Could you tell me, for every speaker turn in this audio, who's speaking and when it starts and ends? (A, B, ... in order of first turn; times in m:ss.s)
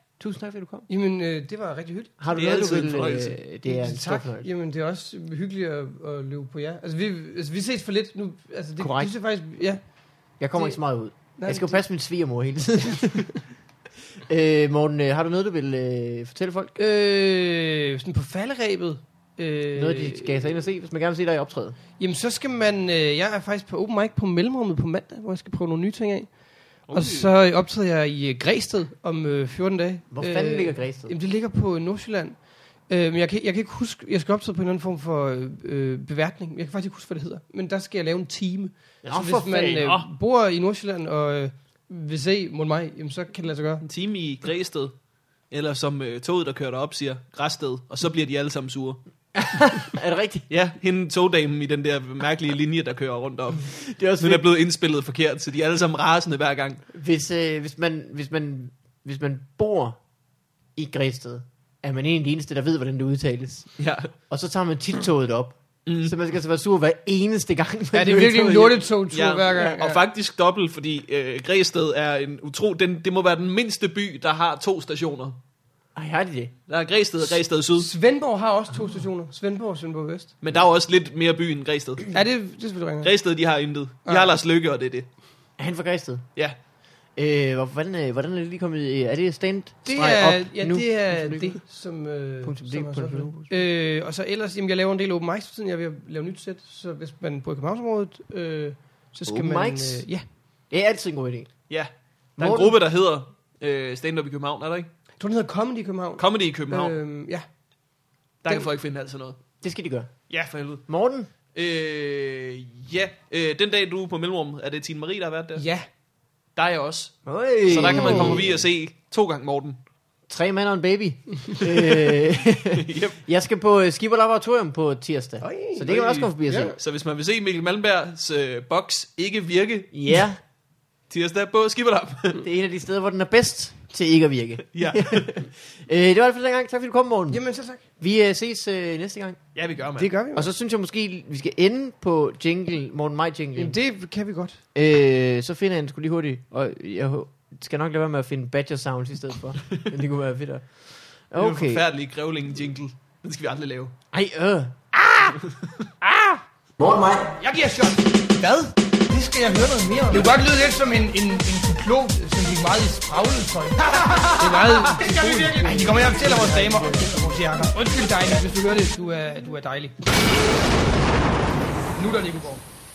0:00.2-0:00.9 A
0:00.9-0:02.2 B
0:02.2-0:04.5 A
0:02.3-0:03.4 C
0:03.6-0:09.8 B
0:08.8-0:09.1 A
0:10.4-0:13.3 A
0:11.4-0:11.8 B
0:14.3-0:16.8 A
0:16.8-0:20.5 B
0:19.7-0:21.8 A
0:22.0-0:26.3 B
0:26.9-0:27.3 C
0:26.9-0:43.8 B
0:30.1-0:31.1 A
0:39.0-0:39.8 A
0:39.6-0:40.1 C
0:43.8-0:44.9 C
0:45.5-0:49.0 C
0:49.4-0:50.5 A
0:50.5-0:56.8 C
0:53.8-0:54.4 A
0:56.9-1:00.0 A
1:00.8-1:03.7 A
1:03.8-1:04.1 C
1:04.3-1:08.9 A
1:05.9-1:06.1 C
1:07.9-1:10.0 B
1:09.1-1:15.4 C
1:15.9-1:16.5 A
1:16.7-1:17.9 C
1:17.8-1:20.3 B
1:20.4-1:22.1 C
1:22.1-1:23.1 B
1:23.0-1:25.1 C
1:24.0-1:24.3 B
1:25.6-1:26.3 A
1:27.2-1:31.6 A
1:29.9-1:40.2 B
1:32.4-1:33.5 A
1:39.3-1:40.1 A
1:40.7-1:41.6 A
1:41.7-1:44.9 C
1:42.4-1:42.8 A
1:45.2-1:47.4 B
1:46.2-1:46.9 C
1:48.4-1:49.4 C
1:49.6-1:50.1 A
1:50.3-1:50.9 C
1:50.9-1:51.3 A
1:51.5-1:55.6 C
1:55.6-1:55.9 B
1:56.6-1:59.8 C
1:57.2-1:58.6 A
1:57.8-1:58.4 B
2:00.3-2:06.7 A
2:02.7-2:03.2 C
2:05.4-2:06.8 B
2:05.9-2:10.1 C
2:09.9-2:10.4 A
2:11.1-2:12.4 C
2:12.4-2:17.4 A
2:14.7-2:15.3 C
2:17.3-2:17.8 B
2:18.0-2:19.4 A
2:19.6-2:20.1 C
2:20.0-2:20.5 B
2:20.3-2:23.8 A
2:23.6-2:24.6 B
2:24.7-2:30.7 A
2:31.3-2:31.8 A
2:31.4-2:33.9 C
2:34.1-2:35.4 A
2:36.8-2:37.3 A
2:37.4-2:50.1 B
2:44.1-2:44.4 C
2:45.3-2:47.1 A
2:51.9-2:52.6 B